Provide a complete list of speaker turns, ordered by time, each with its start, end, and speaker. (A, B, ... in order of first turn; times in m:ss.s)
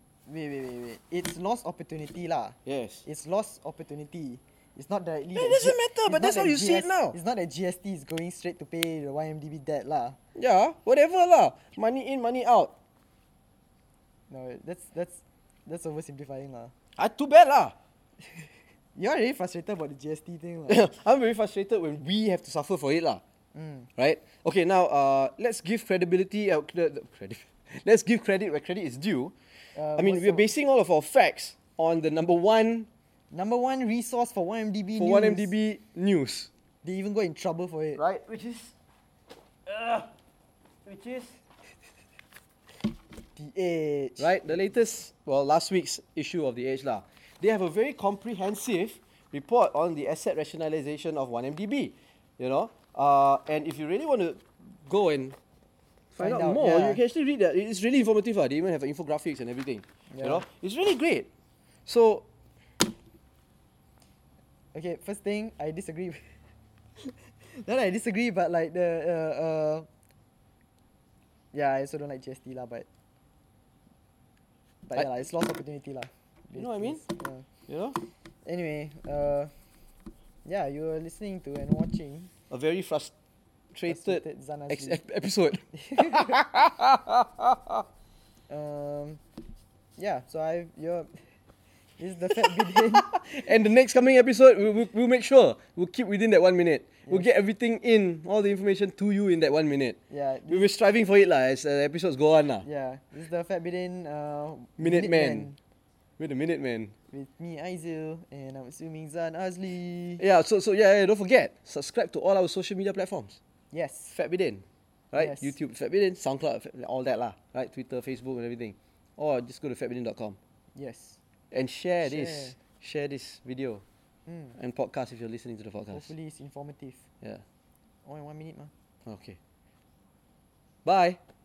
0:00.3-0:10.2 A
0:02.7-0:03.0 B
0:05.4-0:07.2 B
0:10.4-0:12.7 B
0:14.3-0:16.7 A
0:17.0-0:17.8 B
0:19.0-0:20.8 A
0:20.7-0:23.2 B
0:23.5-0:23.9 A
0:24.0-0:29.4 B
0:29.7-0:30.5 A
0:29.9-0:32.9 B
0:33.3-0:35.5 A
0:35.0-0:36.5 B
0:36.8-0:38.0 A
0:38.0-0:38.7 B
0:39.7-0:40.1 B
0:40.9-0:41.4 B
0:43.4-0:44.4 A
0:44.2-0:55.4 B
0:56.1-1:01.3 B
0:56.2-0:57.0 A
1:00.1-1:00.4 A
1:01.9-1:02.2 B
1:04.7-1:06.3 A
1:07.4-1:09.9 A
1:11.5-1:12.9 A
1:14.9-1:17.4 A
1:16.6-1:17.0 B
1:17.7-1:18.0 B
1:18.4-1:19.5 A
1:20.4-1:22.3 A
1:22.5-1:23.1 B
1:23.8-1:27.8 B
1:23.9-1:25.0 A
1:25.7-1:26.4 A
1:28.5-1:29.2 A
1:30.0-1:31.2 A
1:32.0-1:33.1 A
1:32.5-1:40.0 B
1:40.1-1:40.7 A
1:40.5-1:42.7 B
1:42.6-1:45.6 A
1:44.8-1:45.5 B
1:46.2-1:46.9 B
1:47.1-1:50.2 A
1:50.2-1:53.4 B
1:53.7-1:54.1 A
1:54.1-2:00.4 B
1:55.2-1:55.5 A
2:00.8-2:01.2 A
2:01.5-2:03.8 B
2:02.0-2:02.6 A
2:04.3-2:04.6 A
2:04.6-2:06.1 B
2:05.9-2:07.0 A
2:08.0-2:08.7 A
2:09.1-2:09.4 B
2:10.8-2:11.2 B